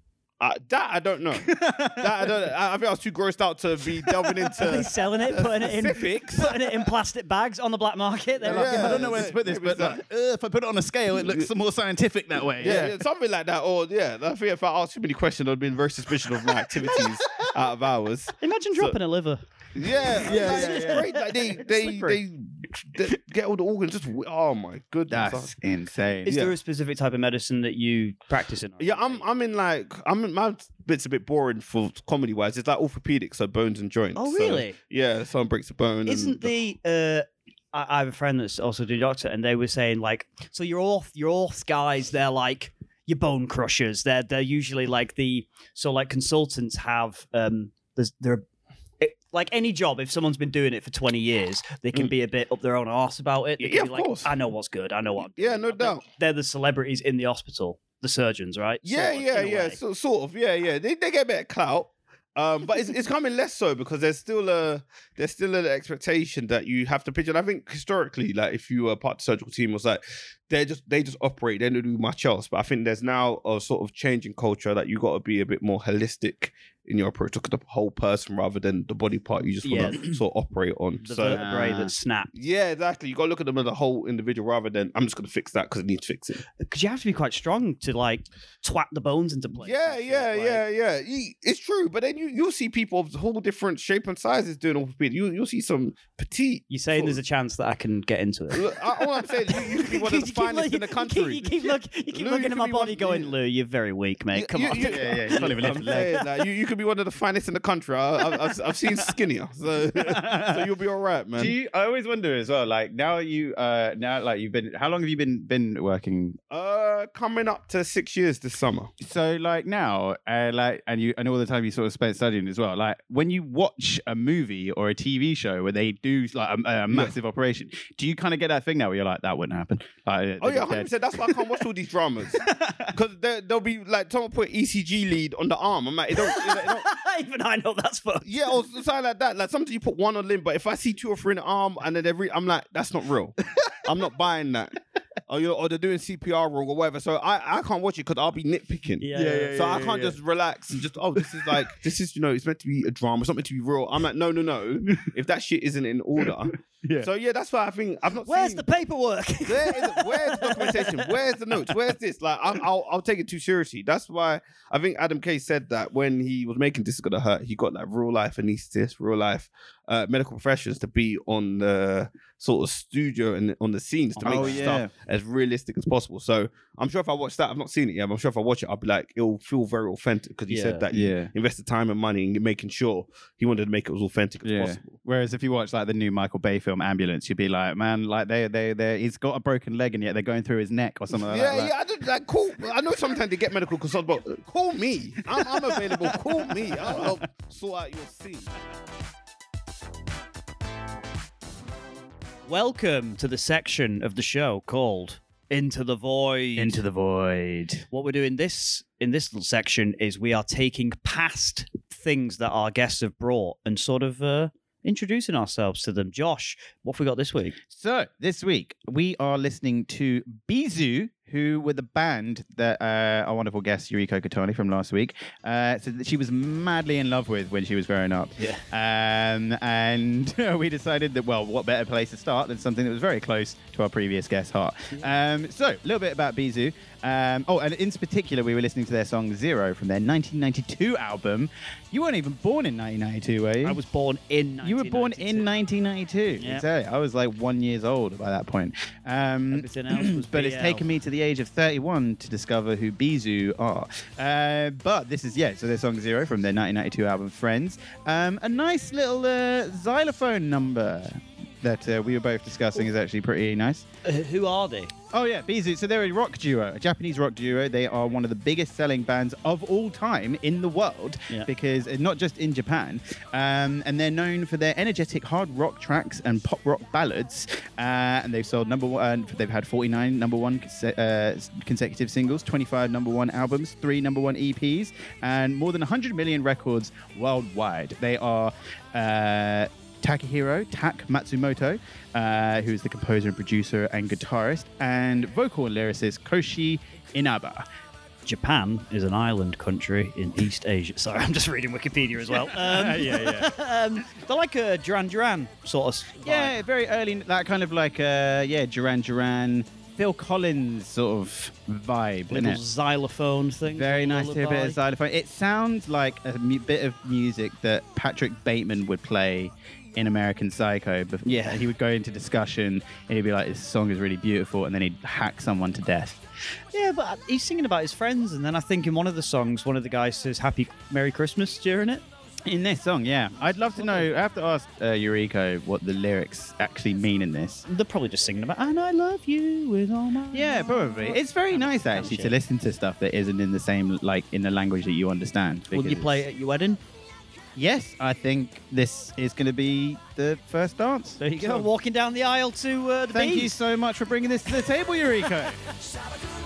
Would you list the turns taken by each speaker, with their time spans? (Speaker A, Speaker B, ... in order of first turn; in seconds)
Speaker A: 0.4-6.6, 8.4-10.0, 11.2-11.5, 12.6-19.0, 19.7-25.5, 26.2-26.5, 28.8-36.5, 53.6-54.3, 55.2-56.0, 58.8-81.7, 82.3-86.4, 89.5-97.2, 98.5-103.3, 104.3-111.5, 116.5-118.9, 130.4-136.9, 138.2-158.6, 159.4-184.9, 191.1-198.5
Speaker B: 1.4-2.4, 4.0-4.6, 8.4-12.9, 16.6-17.3, 20.2-21.1, 25.1-26.3, 81.2-81.9, 104.8-106.2, 109.9-110.7, 111.3-116.4, 119.0-131.6, 132.4-132.9, 149.1-150.2, 151.2-151.7, 156.2-157.1, 174.2-174.9, 180.9-181.3, 184.4-191.7, 195.3-197.2, 206.6-207.8, 217.7-243.8, 244.6-263.8, 265.1-297.6, 302.3-303.6, 306.2-312.6, 313.7-326.2, 332.4-337.6, 340.3-346.2, 347.6-351.7, 353.1-355.6
Speaker C: 4.5-9.3, 18.4-19.4, 20.0-22.2, 26.2-29.2, 34.1-34.8, 36.0-48.4, 49.0-59.8, 79.6-80.2, 81.0-82.3, 86.6-90.6, 96.7-105.7, 136.2-138.6, 149.0-149.8, 158.2-161.1, 174.2-174.7, 180.5-180.8, 202.4-206.8, 207.9-217.6, 243.6-245.5, 246.4-246.7, 249.5-250.8, 264.0-264.9, 298.2-306.6, 312.3-314.8, 321.3-321.6, 326.7-332.0, 333.8-334.1, 337.6-342.4, 345.7-346.8, 351.2-353.6